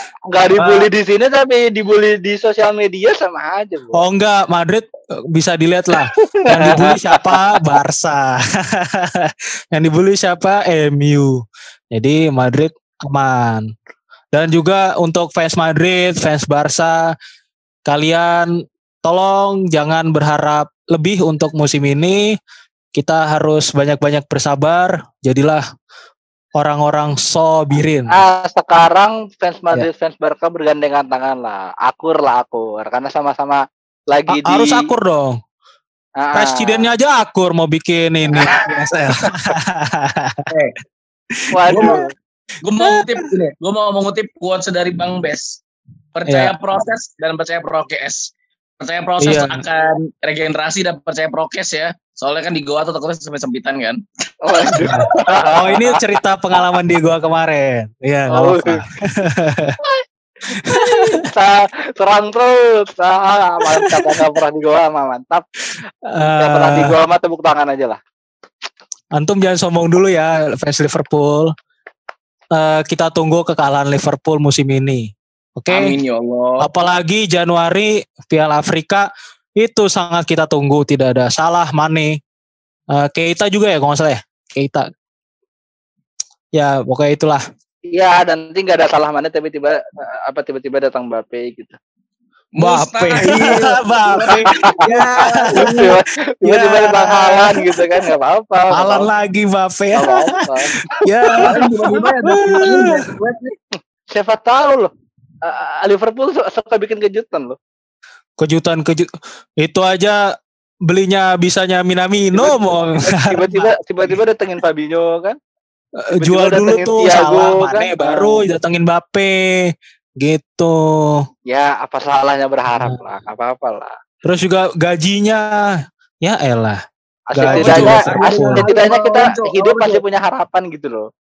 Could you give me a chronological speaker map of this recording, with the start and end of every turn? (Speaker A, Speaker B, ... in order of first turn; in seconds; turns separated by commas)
Speaker A: 0.3-4.0, Speaker B: 0.6-0.9, Speaker B: 3.9-13.7, Speaker A: 6.0-7.6, Speaker B: 14.3-17.1, Speaker B: 17.9-22.3, Speaker B: 22.9-25.6, Speaker B: 26.5-28.1, Speaker A: 28.1-34.9, Speaker B: 34.3-35.4, Speaker A: 36.2-36.9, Speaker B: 36.3-40.5, Speaker A: 38.2-39.2, Speaker C: 40.5-40.8, Speaker B: 41.4-42.0, Speaker A: 41.5-42.1, Speaker C: 41.7-42.0, Speaker C: 42.6-45.6, Speaker B: 42.8-43.3, Speaker C: 46.1-54.0, Speaker B: 46.3-46.5, Speaker B: 49.2-49.6, Speaker A: 54.4-56.1, Speaker C: 54.5-54.9, Speaker B: 54.8-59.8, Speaker A: 58.3-58.8, Speaker A: 59.8-65.5, Speaker B: 60.6-61.0, Speaker B: 63.8-64.3, Speaker B: 66.1-66.9, Speaker A: 66.2-68.0, Speaker B: 69.2-71.5, Speaker B: 72.5-76.0, Speaker C: 75.7-76.7, Speaker B: 76.6-79.1, Speaker B: 79.6-82.2, Speaker B: 82.9-84.9, Speaker B: 86.5-87.4, Speaker A: 87.9-91.8, Speaker C: 92.5-95.9, Speaker B: 92.6-95.9, Speaker A: 95.5-99.1, Speaker B: 96.4-98.1, Speaker B: 98.7-103.0, Speaker A: 99.9-102.0, Speaker C: 101.4-103.5, Speaker A: 104.1-104.9, Speaker A: 105.4-107.5, Speaker B: 108.4-109.1, Speaker B: 109.6-110.2, Speaker B: 110.8-114.1, Speaker A: 112.3-115.4, Speaker B: 116.0-121.2, Speaker A: 116.2-118.4, Speaker A: 121.5-123.9, Speaker B: 124.2-125.5, Speaker B: 126.2-126.8, Speaker A: 127.3-131.1, Speaker B: 127.3-128.6, Speaker C: 127.5-130.0